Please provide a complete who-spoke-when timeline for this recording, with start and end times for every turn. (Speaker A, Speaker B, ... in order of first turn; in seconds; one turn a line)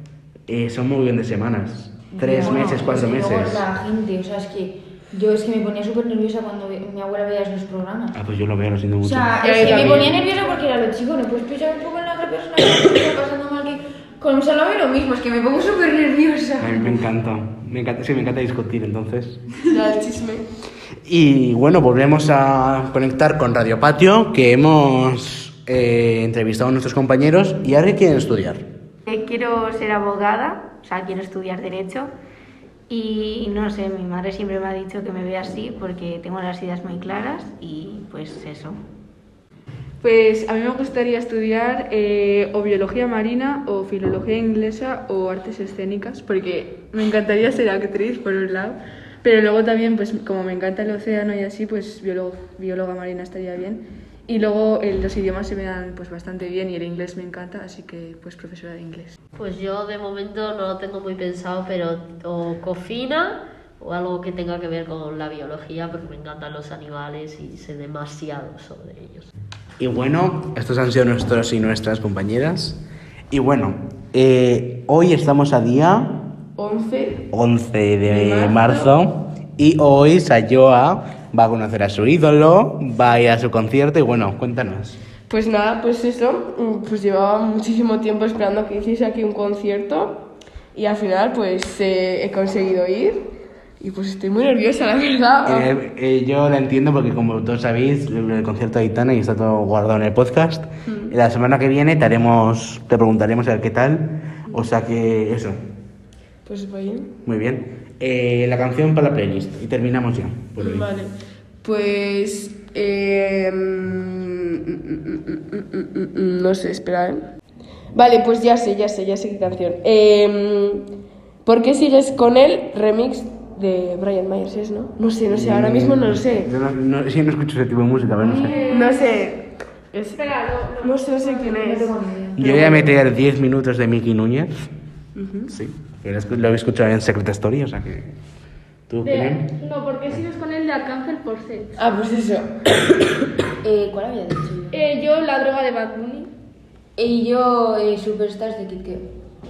Speaker A: 0.5-3.6
Speaker B: 2.1-2.9
Speaker C: 2.4-8.2
Speaker A: 8.1-10.2
Speaker C: 9.0-17.0
Speaker B: 9.4-10.1
Speaker A: 16.6-19.4
Speaker B: 19.7-20.5
Speaker A: 21.1-28.6
Speaker D: 29.1-32.1
Speaker D: 32.9-38.8
Speaker E: 40.0-59.1
Speaker F: 59.4-69.3
Speaker A: 69.8-72.8
Speaker A: 73.3-76.2
Speaker B: 76.6-77.2
Speaker A: 77.3-85.0
Speaker B: 78.1-78.9
Speaker B: 85.3-90.2
Speaker B: 90.7-93.3
Speaker B: 93.8-95.7
Speaker A: 95.5-105.6
Speaker B: 100.9-101.2
Speaker B: 106.5-107.1
Speaker A: 107.2-110.9
Speaker B: 110.6-111.1
Speaker B: 111.6-117.2
Speaker B: 117.9-120.9
Speaker B: 121.5-126.5
Speaker A: 125.3-128.5
Speaker C: 128.2-128.5
Speaker G: 128.4-129.3
Speaker B: 128.4-130.2
Speaker G: 130.2-131.6
Speaker B: 130.8-133.0
Speaker C: 131.6-132.4
Speaker A: 132.4-134.6
Speaker B: 135.2-135.5
Speaker A: 135.5-138.1
Speaker A: 138.9-139.5
Speaker G: 139.0-141.8
Speaker B: 141.8-143.1
Speaker C: 143.6-144.8
Speaker G: 144.7-146.3
Speaker C: 147.0-149.0